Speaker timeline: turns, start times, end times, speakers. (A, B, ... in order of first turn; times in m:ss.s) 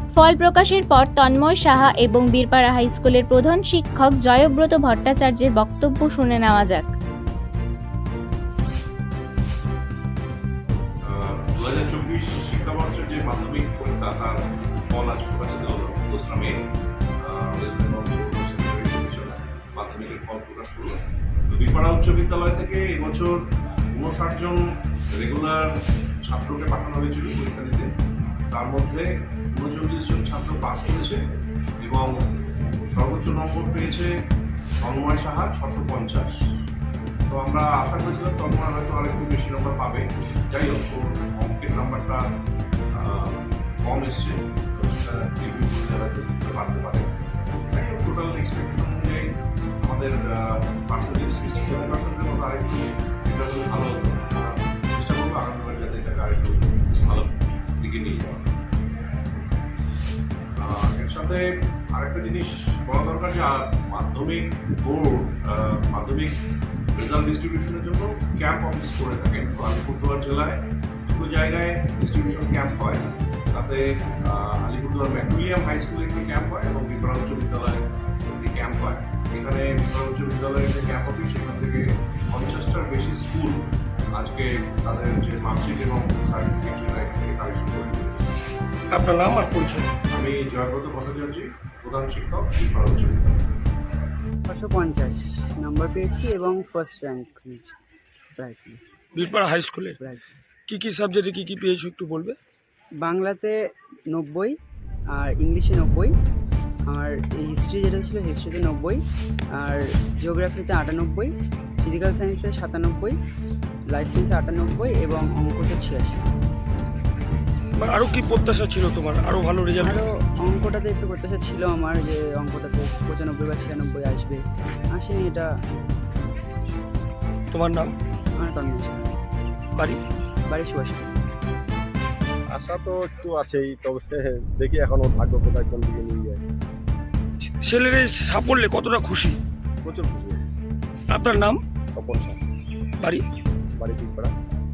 0:00.1-0:06.9 A
0:11.0-0:16.6 B
0:17.2-0:21.0 B
0:21.5-0:23.4 B
0:23.9-0:24.6 B
0:25.2-0:27.9 B
0:28.5-0:31.2 B
0:31.8-0:32.2 B
0:32.9-0:34.1 B
0:34.8-0:36.3 B
0:37.3-0:42.2 B
0:42.9-0:47.2 B
0:47.7-0:49.3 B
0:49.8-0:58.4 B
1:00.6-1:06.4 B
1:07.0-1:23.6 B
1:24.1-1:28.3 B
1:28.9-1:29.9 C
1:30.1-1:33.4 B
1:34.4-1:37.8 D
1:38.4-1:38.8 D
1:39.1-1:39.9 C
1:40.0-1:40.3 D
1:40.7-1:42.4 C
1:43.0-1:43.6 D
1:44.1-1:44.6 D
1:45.1-1:46.1 D
1:46.9-1:49.0 D
1:49.6-1:53.2 D
1:53.9-1:56.3 D
1:57.8-2:00.0 C
1:59.8-2:05.5 D
2:07.5-2:07.9 C
2:08.4-2:09.1 D
2:10.5-2:11.1 D
2:12.5-2:16.4 E
2:17.4-2:19.4 C
2:19.8-2:20.4 E
2:21.1-2:21.6 C
2:21.9-2:22.4 E
2:23.8-2:24.3 E